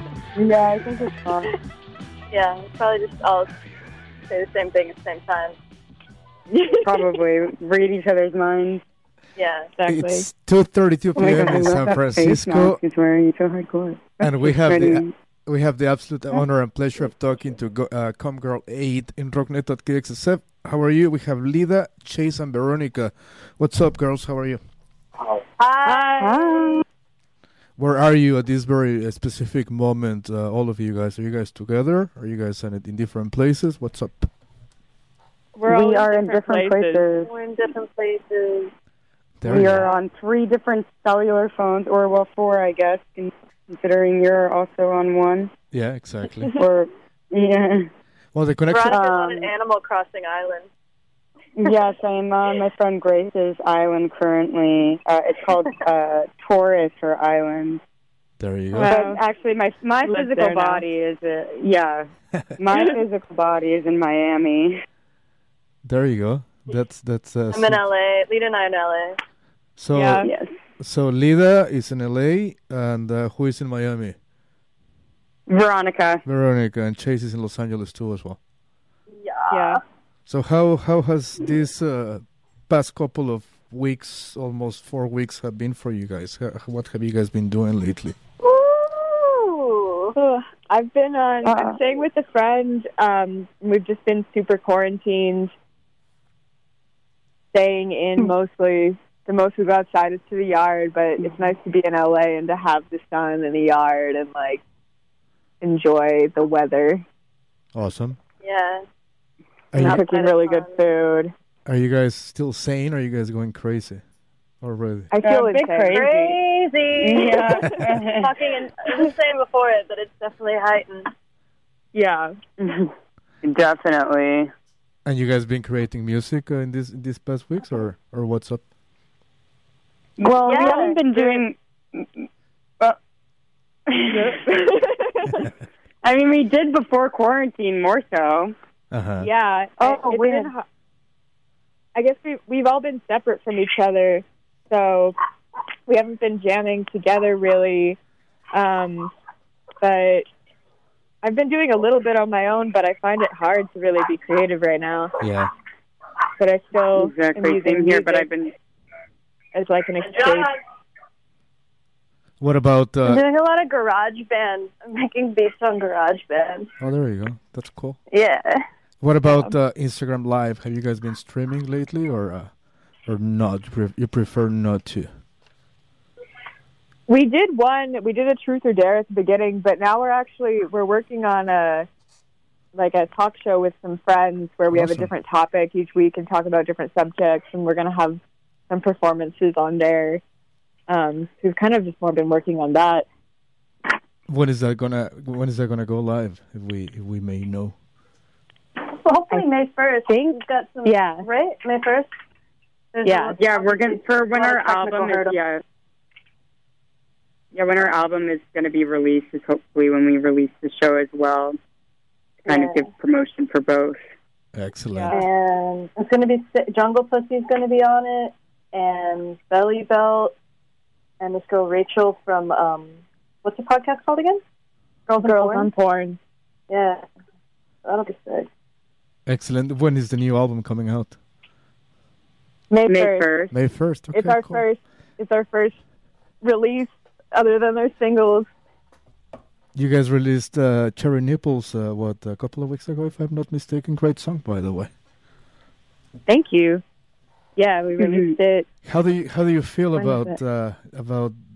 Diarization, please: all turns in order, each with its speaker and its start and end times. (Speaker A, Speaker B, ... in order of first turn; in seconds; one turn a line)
Speaker A: 0.3-1.5
Speaker B: 2.3-3.5
Speaker B: 4.3-5.6
Speaker C: 6.5-7.0
Speaker A: 6.8-8.8
Speaker B: 9.4-9.7
Speaker C: 9.8-10.3
Speaker D: 9.9-12.8
Speaker A: 11.2-15.1
Speaker D: 14.2-24.6
Speaker B: 25.6-26.3
Speaker C: 25.8-26.6
Speaker A: 26.2-26.8
Speaker D: 27.8-34.3
Speaker C: 35.5-37.1
Speaker A: 35.7-37.3
Speaker B: 37.2-38.7
Speaker D: 39.4-39.9
Speaker A: 39.5-45.5
Speaker D: 45.7-46.5
Speaker A: 46.5-47.9
Speaker D: 48.3-49.0
Speaker B: 48.7-50.7
Speaker A: 48.9-49.5
Speaker A: 51.6-57.8
Speaker D: 58.4-58.9
Speaker C: 58.7-59.2
Speaker A: 58.8-64.8
Speaker C: 60.0-60.8
Speaker D: 65.8-67.8
Speaker B: 67.5-69.2
Speaker D: 69.8-74.1
Speaker C: 69.9-70.3
Speaker A: 70.2-70.5
Speaker A: 75.5-76.2
Speaker D: 76.2-78.4
Speaker B: 79.2-79.8
Speaker C: 79.5-79.8
Speaker D: 80.3-88.1
Speaker B: 88.4-90.1
Speaker C: 90.1-95.5
Speaker A: 91.4-91.8
Speaker C: 97.5-104.6
Speaker C: 105.6-107.0
Speaker D: 107.7-108.2
Speaker B: 108.4-108.8
Speaker D: 109.7-110.0
Speaker B: 109.8-110.8
Speaker C: 109.8-111.3
Speaker D: 111.7-114.0
Speaker D: 114.6-115.1
Speaker C: 115.1-116.0
Speaker A: 115.2-116.4
Speaker B: 115.9-121.1
Speaker A: 117.0-118.3
Speaker C: 121.9-122.3
Speaker A: 122.6-122.9
Speaker A: 123.4-124.5
Speaker D: 125.0-128.6
Speaker A: 130.2-132.2
Speaker C: 130.5-131.4
Speaker A: 133.9-134.4
Speaker C: 134.1-135.5
Speaker A: 136.0-138.6
Speaker D: 138.9-139.3
Speaker C: 139.2-140.7
Speaker A: 139.8-140.5
Speaker C: 141.9-145.2
Speaker C: 145.9-148.0
Speaker C: 148.5-149.1
Speaker C: 149.8-150.3
Speaker C: 151.2-155.2
Speaker D: 155.2-155.5
Speaker C: 156.4-158.3
Speaker A: 156.9-158.5
Speaker C: 159.5-160.6
Speaker D: 162.4-163.2
Speaker B: 163.0-166.7
Speaker D: 166.8-168.0
Speaker B: 168.1-168.6
Speaker D: 169.0-172.5
Speaker D: 173.1-175.1
Speaker C: 177.1-181.9
Speaker C: 182.8-190.2
Speaker D: 184.7-185.1
Speaker C: 190.9-193.1
Speaker D: 194.3-197.8
Speaker B: 198.8-202.1
Speaker C: 200.1-201.2
Speaker B: 202.9-205.3
Speaker C: 203.1-203.3
Speaker A: 203.4-205.6
Speaker A: 207.5-211.6
Speaker A: 212.4-214.0
Speaker B: 212.5-212.8
Speaker D: 214.5-215.2
Speaker C: 214.9-215.3
Speaker B: 215.1-220.3
Speaker B: 221.2-224.4
Speaker C: 225.1-226.2
Speaker B: 225.2-225.7
Speaker B: 226.7-227.1
Speaker B: 227.8-228.5
Speaker D: 229.2-231.2
Speaker C: 232.7-233.3
Speaker A: 232.9-233.5
Speaker D: 233.5-234.6
Speaker C: 234.1-235.8
Speaker C: 236.4-238.5
Speaker D: 239.8-244.9
Speaker C: 246.3-246.8
Speaker C: 247.6-248.7
Speaker A: 248.0-248.3
Speaker D: 248.8-251.3
Speaker C: 250.0-250.4